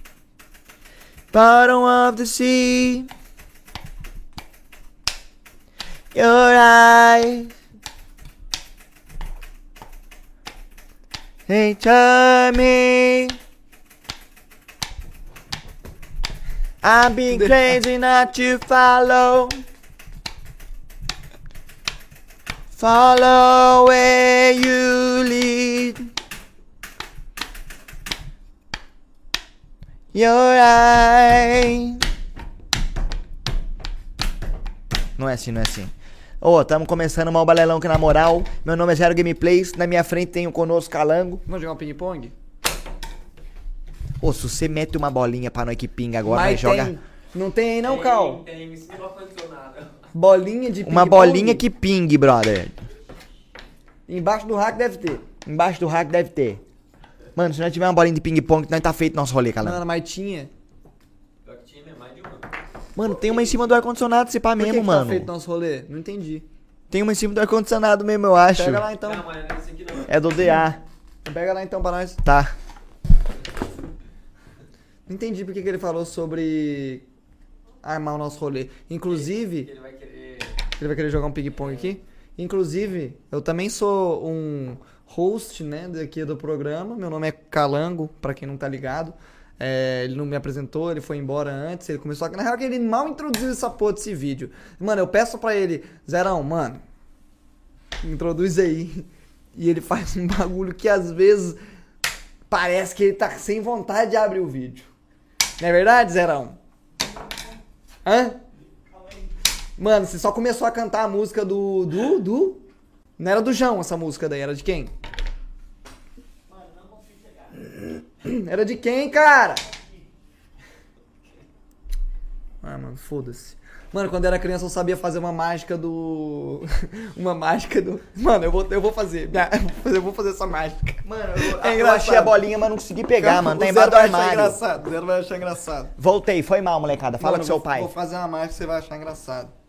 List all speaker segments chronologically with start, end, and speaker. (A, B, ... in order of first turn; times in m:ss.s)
0:01.3-0:03.1 A
0:06.1-0:07.5 A
0:11.5-0:13.4 A
0:16.8-0:19.6 A
0:17.3-0:17.8 B
0:22.7-0:26.1 A
0:30.1-0:32.0 A
0:35.2-0:41.4 A
0:41.4-0:42.3 B
0:44.2-0:46.9 A
0:46.2-0:48.4 B
0:47.8-0:50.0 C
0:50.1-0:51.6 B
0:50.8-0:52.8 A
0:54.1-0:55.2 B
0:55.4-0:56.6 A
0:57.4-0:59.8 A
0:59.6-1:00.5 B
1:01.4-1:02.5 C
1:03.0-1:05.3 A
1:04.6-1:06.4 B
1:06.9-1:08.8 A
1:08.5-1:09.2 B
1:09.0-1:10.2 C
1:10.0-1:10.8 A
1:11.2-1:12.2 B
1:12.2-1:12.5 A
1:15.1-1:17.0 B
1:17.8-1:19.7 B
1:19.1-1:20.6 C
1:20.8-1:36.8 B
1:38.0-1:41.6 B
1:42.5-1:44.9 B
1:45.6-1:46.6 B
1:48.0-1:48.4 B
1:49.8-1:52.6 B
1:53.2-1:54.9 B
1:57.5-1:59.7 B
2:02.6-2:12.4 B
2:11.0-2:14.6 A
2:13.2-2:15.9 B
2:16.0-2:17.9 A
2:17.2-2:19.5 B